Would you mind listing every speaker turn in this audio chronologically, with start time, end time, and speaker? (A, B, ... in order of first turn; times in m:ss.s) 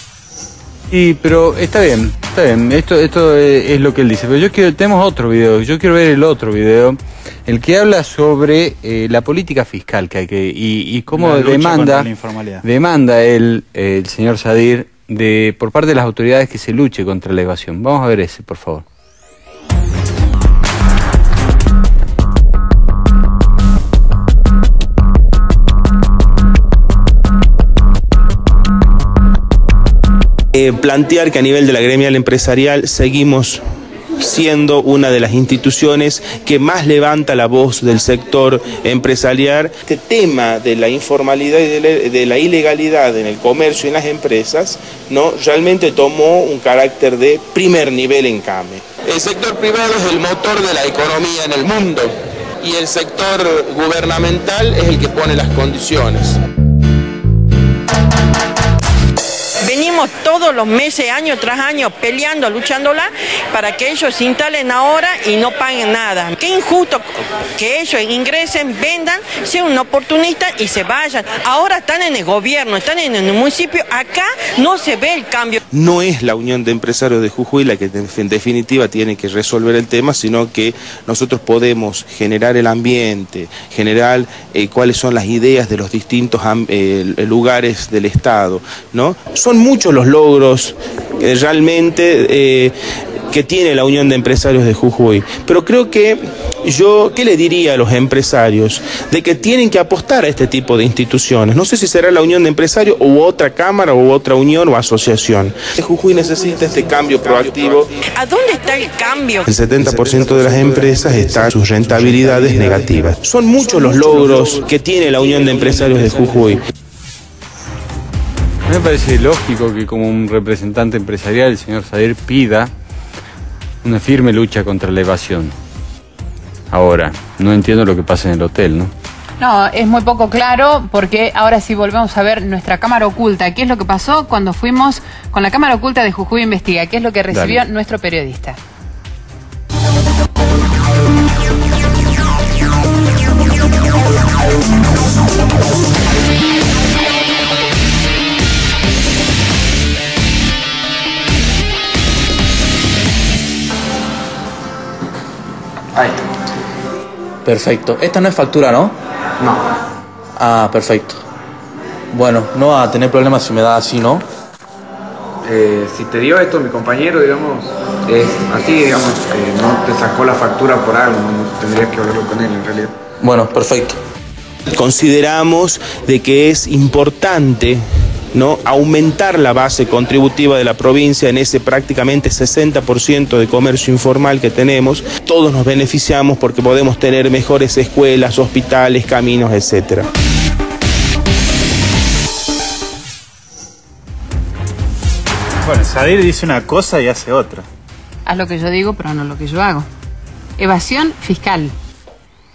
0:00.9-0:12.1 A
0:11.1-0:12.6 B
0:12.6-0:18.9 A
0:30.5-0:33.6 C
0:34.2-0:56.4 C
0:59.6-1:07.0 D
1:07.6-1:15.6 D
1:15.7-1:32.7 C
1:33.3-1:47.9 C
1:48.1-1:49.5 D
1:49.5-1:56.6 C
1:58.7-2:02.7 A
2:03.8-2:05.6 A
2:06.7-2:08.9 A
2:09.4-2:18.6 E
2:17.3-2:17.6 A
2:36.0-2:36.2 F
2:37.4-2:39.0 G
2:40.4-2:41.2 G
2:42.1-2:44.2 G
2:45.4-2:53.0 F
2:53.2-2:54.0 G
2:54.7-2:57.8 C
2:58.3-3:10.1 C
3:15.6-3:17.7 B
3:18.3-3:19.9 E
3:20.6-3:21.7 E